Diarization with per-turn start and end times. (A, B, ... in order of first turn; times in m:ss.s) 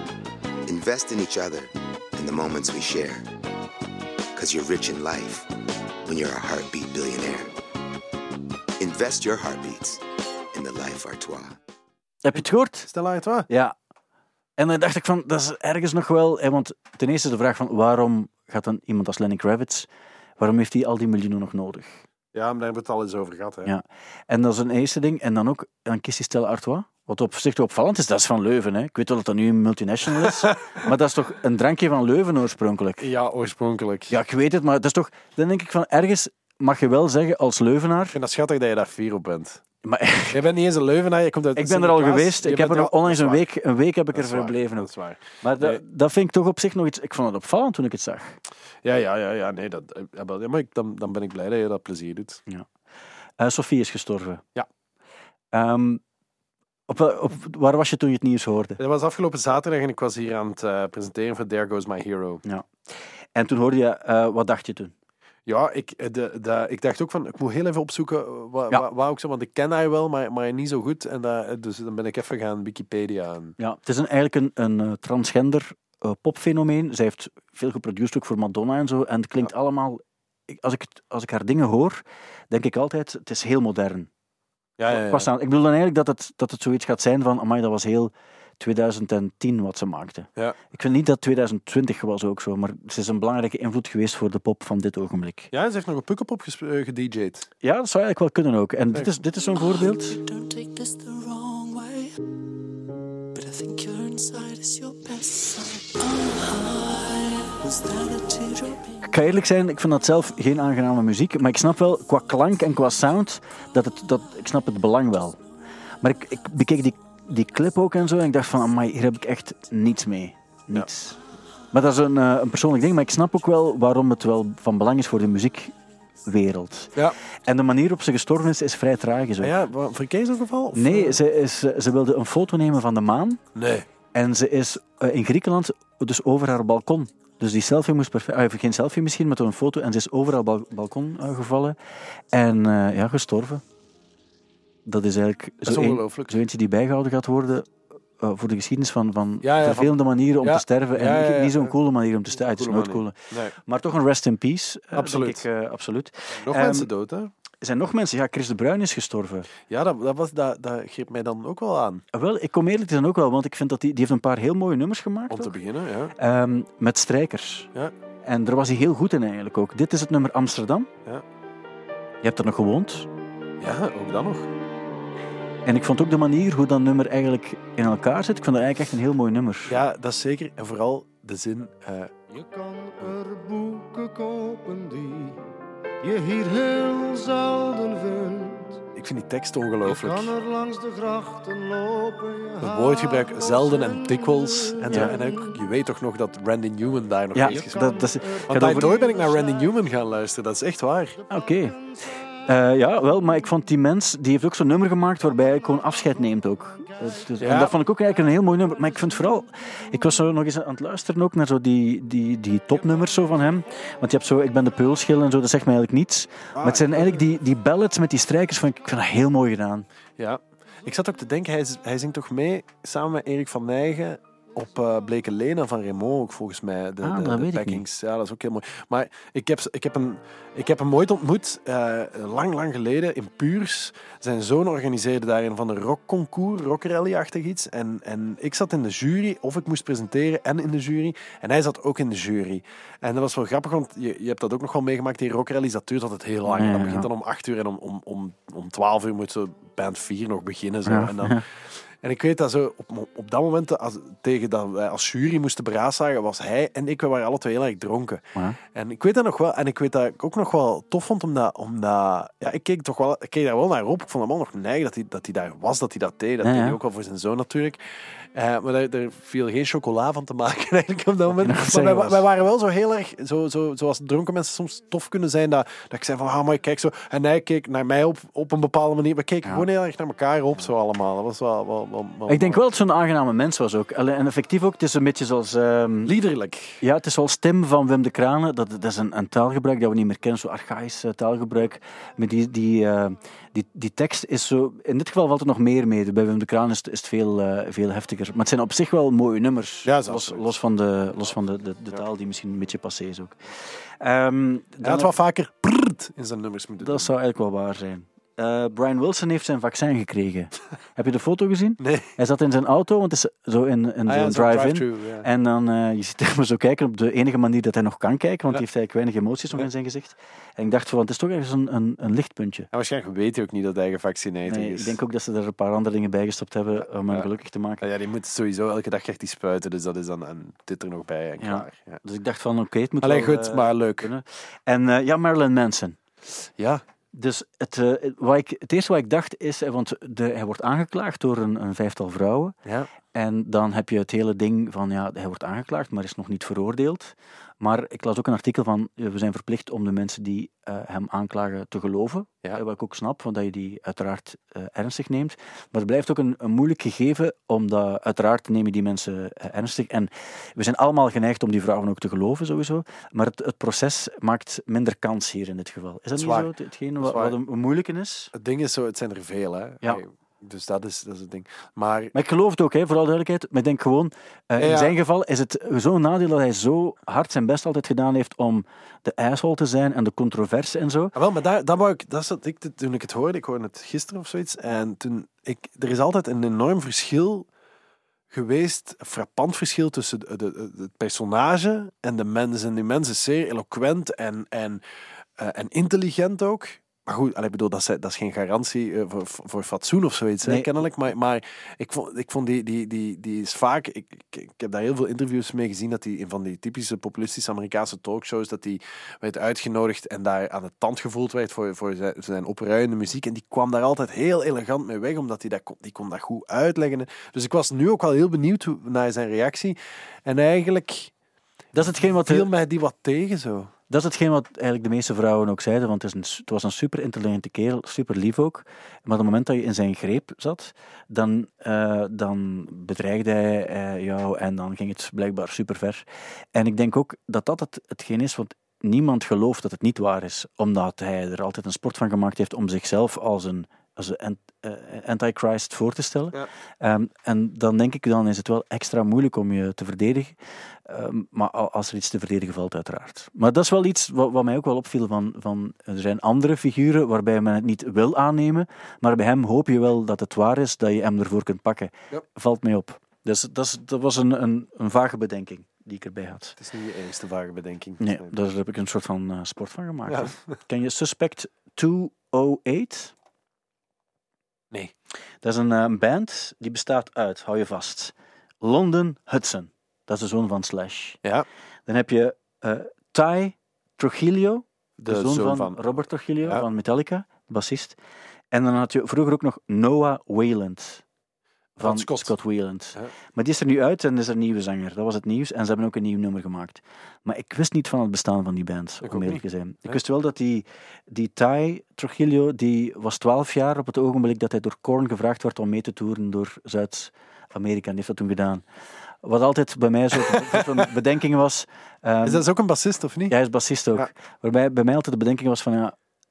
0:00.7-0:03.2 A
0:04.4-0:05.5 A
0:06.0-0:07.5 A
0:08.8-0:10.0 A
0:10.5-0:11.6 A
0:12.2-0:12.9 B
0:12.8-0:13.5 C
0:13.5-0:13.7 B
0:14.6-0:19.9 B
0:20.4-0:21.9 B
0:22.3-0:23.7 C
0:23.6-0:33.0 B
0:30.2-0:30.5 C
0:33.0-0:34.1 C
0:34.1-0:38.2 B
0:38.1-0:39.6 C
0:39.8-0:40.4 B
0:40.3-0:43.5 C
0:41.6-0:44.9 B
0:44.1-0:45.8 C
0:45.4-0:48.4 B
0:48.8-0:52.4 C
0:53.4-0:54.4 B
0:55.5-0:56.0 B
0:56.9-0:58.8 B
0:58.8-1:02.4 C
1:02.4-1:04.9 B
1:05.5-1:13.6 C
1:13.6-1:24.1 B
1:24.8-1:25.3 C
1:24.9-1:35.5 B
1:35.5-1:37.5 C
1:37.6-1:40.2 B
1:39.6-1:42.1 D
1:43.4-1:49.0 D
1:49.0-1:55.4 B
1:56.0-2:01.2 B
2:01.7-2:05.7 B
2:06.2-2:06.9 B
2:07.5-2:09.6 B
2:09.4-2:11.2 C
2:10.7-2:13.4 B
2:13.5-2:13.9 C
2:14.1-2:21.8 B
2:22.3-2:23.6 B
2:24.9-2:36.9 B
2:25.6-2:26.4 C
2:29.4-2:31.8 C
2:32.4-2:33.6 C
2:34.9-2:35.4 C
2:36.3-2:37.3 C
2:37.6-2:39.5 B
2:39.7-2:42.0 C
2:42.1-2:45.6 B
2:45.3-2:46.1 C
2:46.2-2:47.7 B
2:48.2-2:50.9 B
2:52.2-2:53.1 B
2:53.6-2:54.5 C
2:55.7-2:59.8 B
2:59.7-3:02.2 C
3:02.3-3:05.4 E
3:06.0-3:08.8 E
3:09.0-3:10.3 C
3:09.8-3:15.6 E
3:12.6-3:17.8 C
3:14.9-3:15.2 B
3:17.4-3:19.0 B
3:17.4-3:20.2 E
3:18.5-3:21.2 C
3:21.2-3:23.4 E
3:21.3-3:21.8 B
3:22.5-3:39.9 B
3:25.6-3:27.4 E
3:27.4-3:27.8 C
3:28.4-3:29.1 E
3:36.6-3:37.2 C
3:40.2-4:42.6 C
3:47.0-3:47.8 B
4:06.5-4:07.1 B
4:10.9-4:11.4 B
4:26.4-4:26.8 B
4:31.4-4:32.2 B
4:42.3-4:46.1 B
4:46.0-4:46.8 C
4:46.8-5:03.4 B
4:59.8-5:00.5 C
5:04.0-5:05.1 B
5:04.8-5:07.1 C
5:06.8-5:22.7 B
5:11.8-5:12.1 C
5:14.1-5:15.3 C
5:22.7-5:25.0 C
5:24.5-5:27.8 B
5:27.8-5:32.0 C
5:31.4-5:36.0 B
5:33.0-5:34.1 C
5:36.6-5:36.8 C
5:37.1-5:42.6 B
5:42.6-5:42.9 C
5:43.1-6:08.3 B
6:06.2-6:07.4 C
6:08.3-6:12.1 C
6:12.1-6:21.1 B
6:14.6-6:15.0 C
6:21.2-6:27.5 C
6:28.3-6:34.8 C
6:35.4-7:01.1 C
6:40.4-6:40.7 B
7:01.7-7:02.5 B
7:02.2-7:03.7 C
7:03.9-7:16.0 B
7:16.6-7:30.4 B
7:30.9-7:46.6 B
7:46.6-7:48.3 C
7:48.0-7:53.1 B
7:50.1-7:50.4 C
7:55.4-8:01.2 B
8:01.9-8:08.0 B
8:05.0-8:06.7 C
8:08.5-8:11.0 B
8:11.8-8:28.6 B
8:11.8-8:12.4 C
8:19.0-8:20.0 C
8:29.2-8:32.4 B
8:30.2-8:30.8 C
8:32.2-8:33.4 C
8:33.3-8:36.0 B